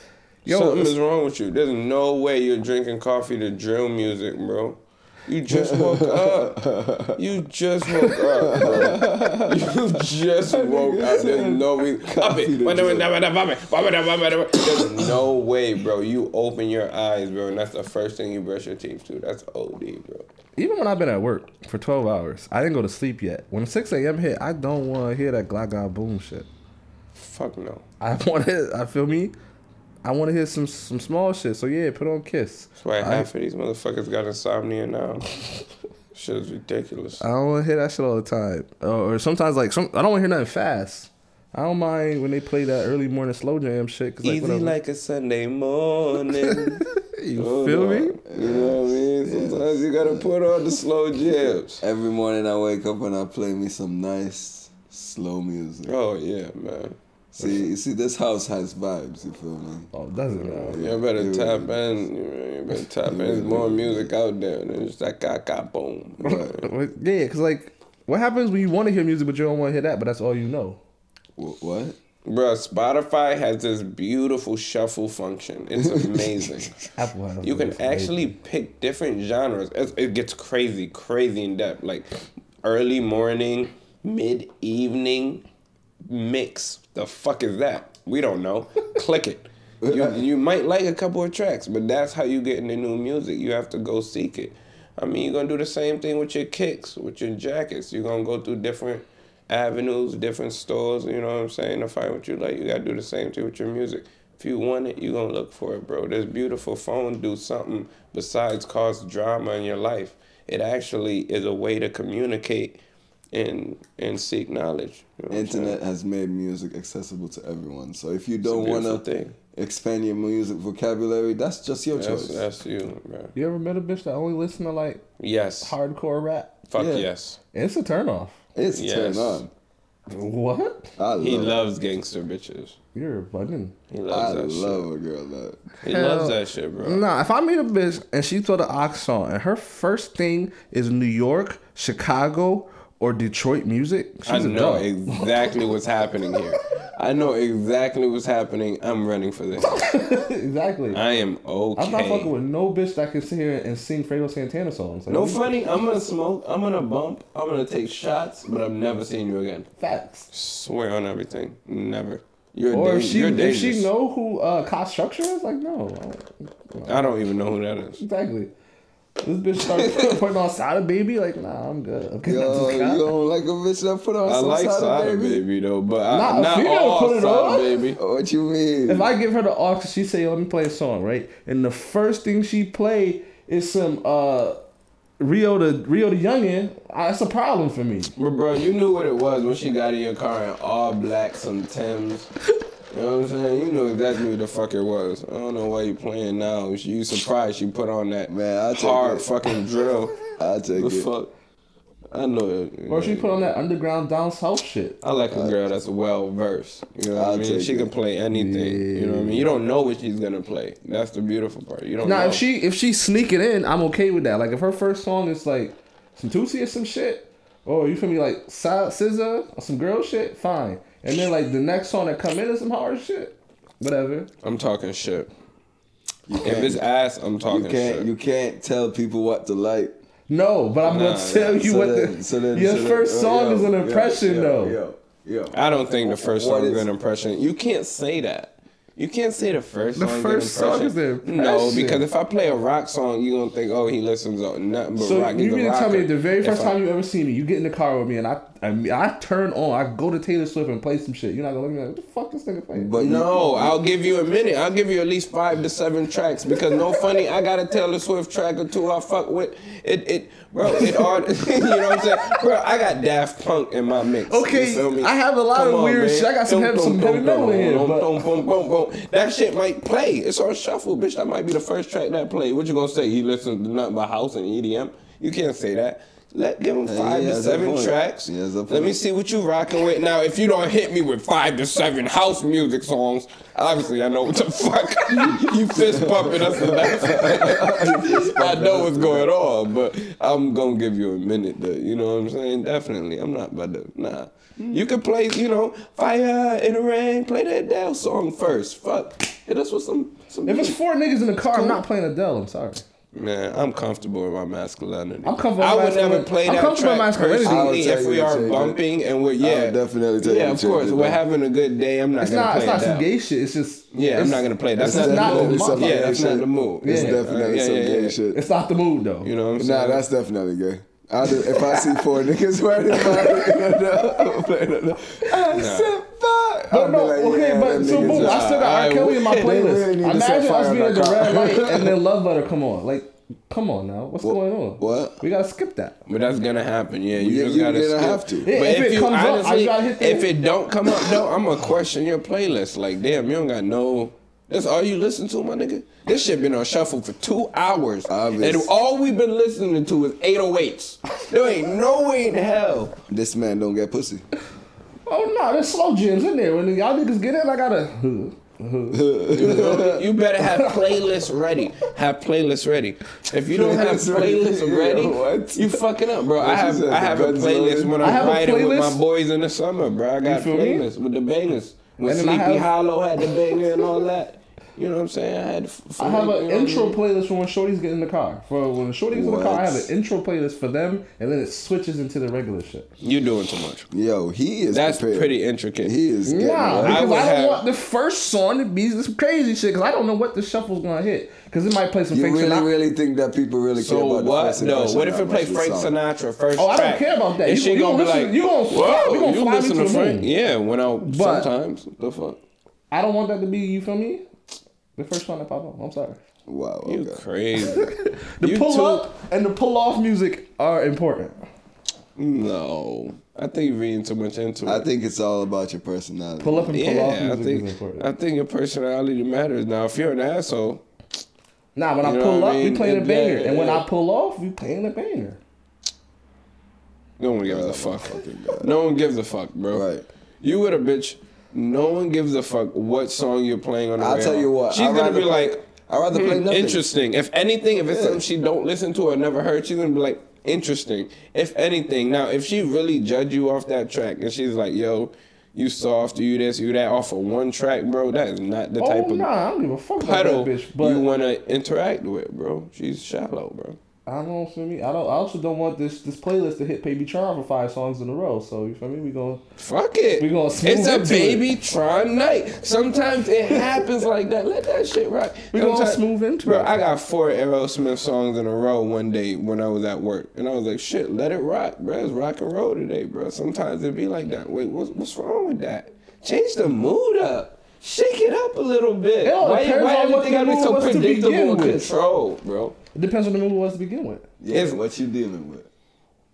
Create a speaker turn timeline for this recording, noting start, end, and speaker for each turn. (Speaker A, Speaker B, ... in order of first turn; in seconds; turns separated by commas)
Speaker A: 0.5-0.9, Speaker B: 0.5-20.3, Speaker C: 5.5-7.2, Speaker C: 8.4-9.7, Speaker C: 10.4-13.1, Speaker A: 20.6-26.5, Speaker B: 27.1-27.8, Speaker A: 28.0-29.3, Speaker A: 30.0-33.3, Speaker B: 32.8-35.3, Speaker B: 36.1-37.2, Speaker A: 37.2-44.7, Speaker B: 44.2-46.8, Speaker A: 46.5-48.2, Speaker B: 47.4-51.8, Speaker C: 48.3-50.3, Speaker C: 51.8-55.9, Speaker B: 55.9-57.0, Speaker C: 57.3-59.9, Speaker A: 59.9-60.8, Speaker B: 60.4-66.5, Speaker C: 60.7-61.8, Speaker C: 63.1-64.1, Speaker C: 66.2-66.6, Speaker A: 66.2-70.8, Speaker C: 71.4-72.0, Speaker B: 72.2-76.7, Speaker C: 75.8-76.4, Speaker A: 77.0-78.3, Speaker B: 77.4-82.1, Speaker B: 82.6-85.4, Speaker B: 86.0-112.8, Speaker C: 89.8-90.2, Speaker B: 113.3-115.8, Speaker C: 115.3-122.4, Speaker B: 118.4-119.3, Speaker B: 121.9-123.3, Speaker A: 123.3-125.0, Speaker B: 125.2-125.7, Speaker A: 125.6-126.6, Speaker B: 126.7-127.4, Speaker C: 126.8-127.1, Speaker A: 127.5-128.4, Speaker C: 128.6-129.5, Speaker B: 128.7-129.4, Speaker A: 130.1-130.9, Speaker C: 131.0-131.6, Speaker B: 131.2-132.8, Speaker A: 132.9-133.7, Speaker B: 133.9-134.9, Speaker C: 134.1-135.7, Speaker B: 135.8-137.0, Speaker A: 135.9-145.5, Speaker B: 144.2-149.8, Speaker A: 149.6-151.0, Speaker B: 150.9-152.3, Speaker A: 151.8-155.4, Speaker B: 155.1-159.7, Speaker A: 159.8-160.3, Speaker B: 160.3-163.9, Speaker A: 162.7-167.2, Speaker B: 166.9-168.0, Speaker A: 168.0-168.5, Speaker A: 169.2-173.1, Speaker C: 172.2-175.4, Speaker B: 174.2-178.0, Speaker A: 176.1-177.8, Speaker C: 177.9-179.1, Speaker A: 178.9-184.6, Speaker A: 185.2-188.1, Speaker B: 188.2-192.3, Speaker B: 192.9-200.2, Speaker C: 198.3-199.3, Speaker C: 200.4-201.1, Speaker B: 200.7-201.3, Speaker B: 202.1-203.5, Speaker A: 202.9-205.0, Speaker B: 205.0-212.4, Speaker C: 205.3-205.6, Speaker C: 207.1-207.9, Speaker A: 208.3-209.5, Speaker A: 212.0-224.3, Speaker B: 224.4-225.3, Speaker C: 226.3-226.8, Speaker B: 226.4-228.1, Speaker C: 227.4-229.9, Speaker A: 230.3-234.8, Speaker B: 230.8-231.6, Speaker C: 231.5-236.9, Speaker B: 235.5-246.8, Speaker A: 239.9-242.0, Speaker A: 245.0-252.9, Speaker C: 252.7-253.8, Speaker B: 253.0-300.8, Speaker A: 260.7-262.4, Speaker A: 264.3-268.3, Speaker C: 276.9-279.0, Speaker C: 285.2-289.4, Speaker C: 294.6-294.8, Speaker A: 300.4-302.8, Speaker B: 301.4-301.8, Speaker B: 303.1-313.1, Speaker A: 305.2-307.8, Speaker C: 307.4-308.8, Speaker C: 309.4-311.2, Speaker A: 312.2-316.1, Speaker B: 313.9-318.2, Speaker C: 314.8-318.4, Speaker A: 316.8-317.2, Speaker A: 318.3-319.3, Speaker B: 319.2-320.0, Speaker C: 319.6-328.5, Speaker B: 321.5-322.0, Speaker B: 323.1-323.4, Speaker B: 325.5-325.9, Speaker A: 326.7-335.9, Speaker B: 327.9-329.5, Speaker C: 329.3-332.0, Speaker C: 334.2-335.2, Speaker B: 336.1-352.9, Speaker C: 337.1-338.5, Speaker A: 338.4-340.3, Speaker C: 348.1-348.7, Speaker C: 353.1-354.2, Speaker A: 355.1-359.1, Speaker C: 358.9-360.1, Speaker B: 359.3-377.0, Speaker A: 360.5-360.8, Speaker C: 363.4-365.8, Speaker C: 366.4-368.3, Speaker A: 368.0-369.0, Speaker A: 370.2-370.9, Speaker A: 372.0-372.7, Speaker A: 376.0-382.9, Speaker C: 379.1-379.9, Speaker B: 383.0-383.9, Speaker C: 383.9-387.1, Speaker B: 384.7-385.9, Speaker A: 386.2-392.7, Speaker B: 386.8-387.6, Speaker C: 392.1-395.9, Speaker B: 393.8-402.4, Speaker A: 396.6-400.3, Speaker A: 401.0-401.5, Speaker A: 402.9-404.2, Speaker A: 404.9-406.2, Speaker C: 406.5-407.2, Speaker B: 406.9-409.1, Speaker A: 407.7-411.4, Speaker B: 412.1-414.9, Speaker C: 414.6-416.8, Speaker A: 416.4-418.1, Speaker B: 416.7-420.8, Speaker A: 421.7-425.4, Speaker B: 422.0-423.9, Speaker B: 427.2-429.9, Speaker C: 427.4-428.7, Speaker C: 429.7-430.1, Speaker B: 430.4-435.6, Speaker C: 434.0-436.9, Speaker B: 436.1-449.3, Speaker C: 437.9-438.2, Speaker A: 448.8-451.1, Speaker B: 450.0-453.8, Speaker A: 454.1-459.4, Speaker B: 459.6-482.8, Speaker A: 460.2-461.4, Speaker A: 465.5-466.7, Speaker A: 479.2-481.9, Speaker A: 482.9-484.2, Speaker C: 484.4-485.7, Speaker B: 484.5-484.8